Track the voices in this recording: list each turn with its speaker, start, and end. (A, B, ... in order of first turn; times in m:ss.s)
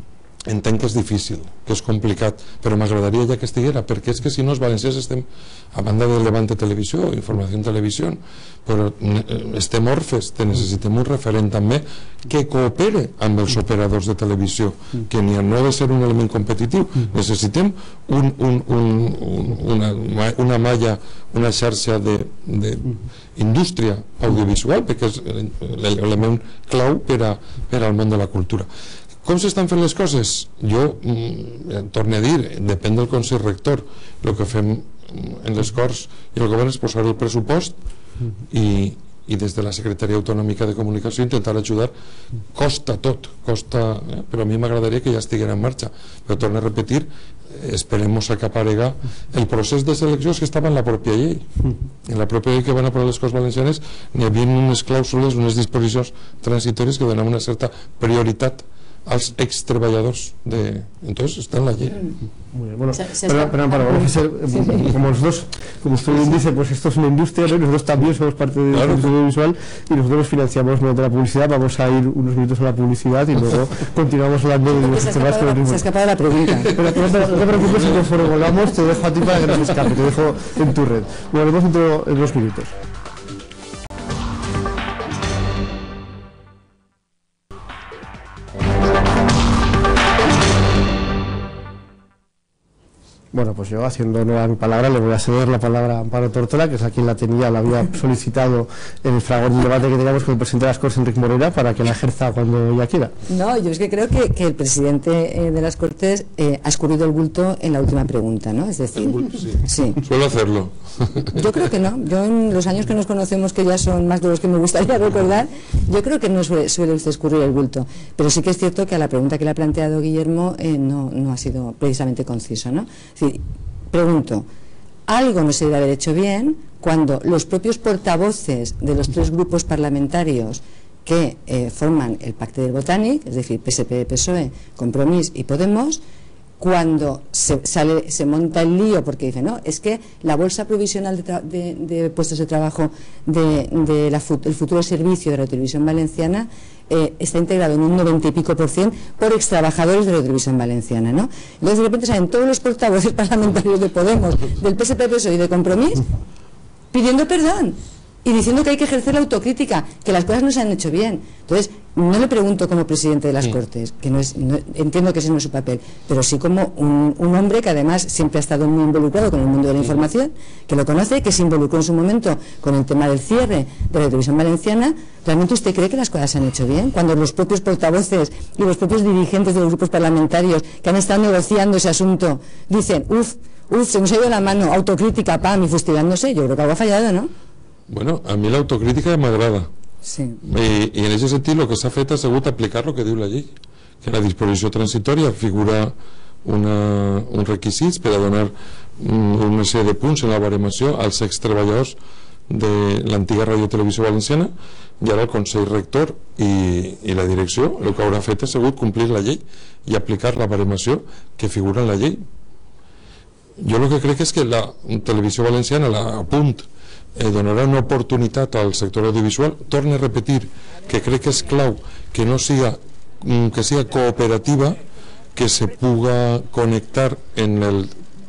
0:00.5-0:28.7 A
0:29.2-0:37.8 A
0:38.5-0:41.9 A
0:42.5-0:51.5 A
0:52.0-1:02.0 A
1:02.5-1:15.8 B
1:03.0-1:04.8 C
1:08.7-1:09.1 A
1:14.7-1:16.8 C
1:16.7-1:22.7 B
1:33.3-1:43.1 B
1:43.3-1:50.0 C
1:49.0-1:51.4 A
1:51.3-2:04.5 C
2:05.1-2:16.0 C
2:16.6-2:36.0 C
2:36.9-3:07.3 C
3:07.9-3:09.7 A
3:10.0-3:10.4 C
3:10.4-3:22.0 A
3:22.5-3:32.2 A
3:33.6-3:44.8 A
3:45.3-3:48.0 A